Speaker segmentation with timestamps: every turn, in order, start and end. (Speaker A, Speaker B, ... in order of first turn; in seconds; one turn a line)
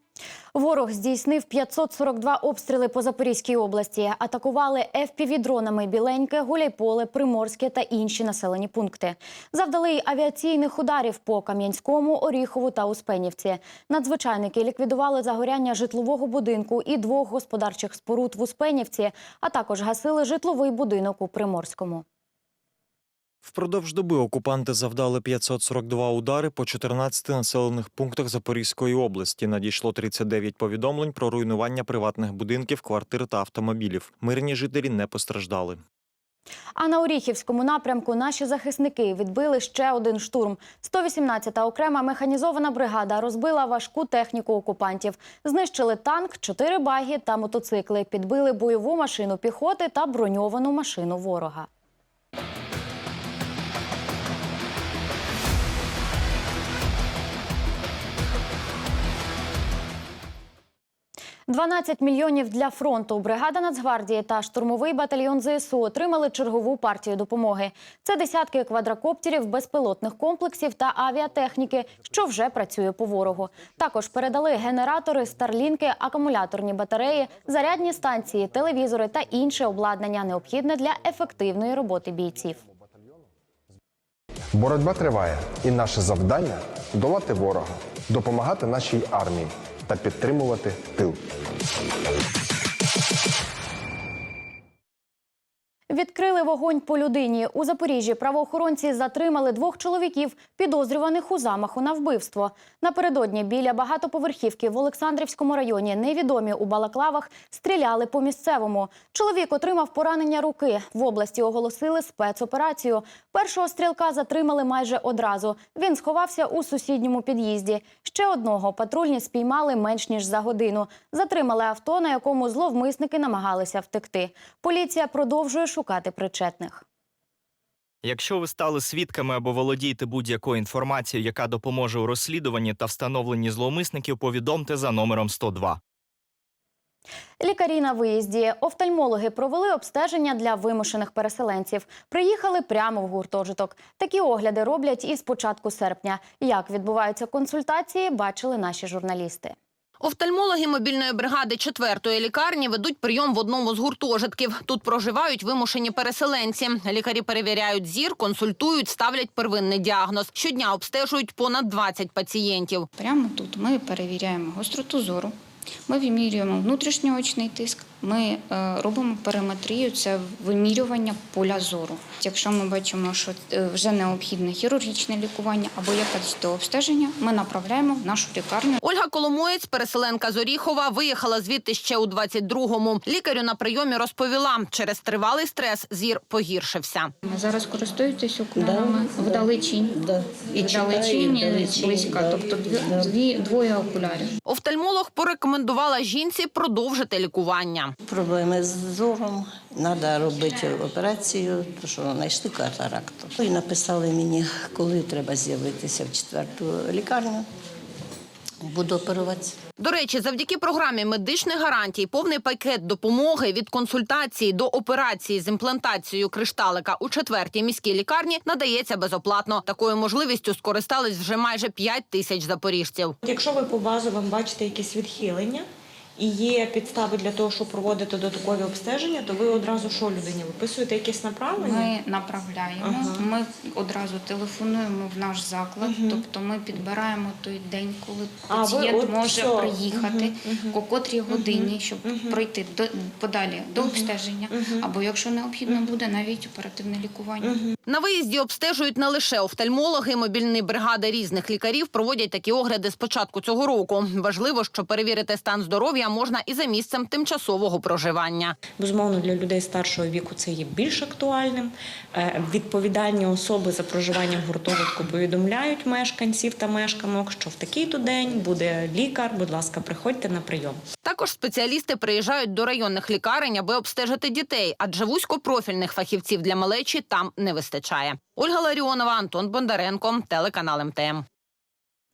Speaker A: 0.5-22.0
Speaker B: 23.4-35.8
Speaker A: 36.8-51.7
Speaker A: 61.5-82.6
Speaker C: 84.5-91.2
Speaker A: 95.9-126.8
Speaker D: 128.0-135.8
Speaker A: 137.4-149.6
Speaker E: 150.0-162.9
Speaker F: 163.0-165.3
Speaker F: 165.9-178.8
Speaker E: 178.8-187.1
Speaker F: 187.2-190.0
Speaker G: 188.6-193.1
Speaker F: 190.6-194.3
Speaker E: 194.5-197.9
Speaker G: 198.1-207.4
Speaker G: 208.6-209.6
Speaker E: 209.8-223.1
Speaker H: 223.2-225.7
Speaker H: 226.2-231.9
Speaker F: 231.6-247.6
Speaker H: 232.8-233.2
Speaker H: 235.8-236.2
Speaker H: 238.5-242.4
Speaker H: 243.8-244.9
Speaker H: 247.4-247.7
Speaker E: 247.9-258.6
Speaker H: 258.8-270.8
Speaker E: 271.0-281.2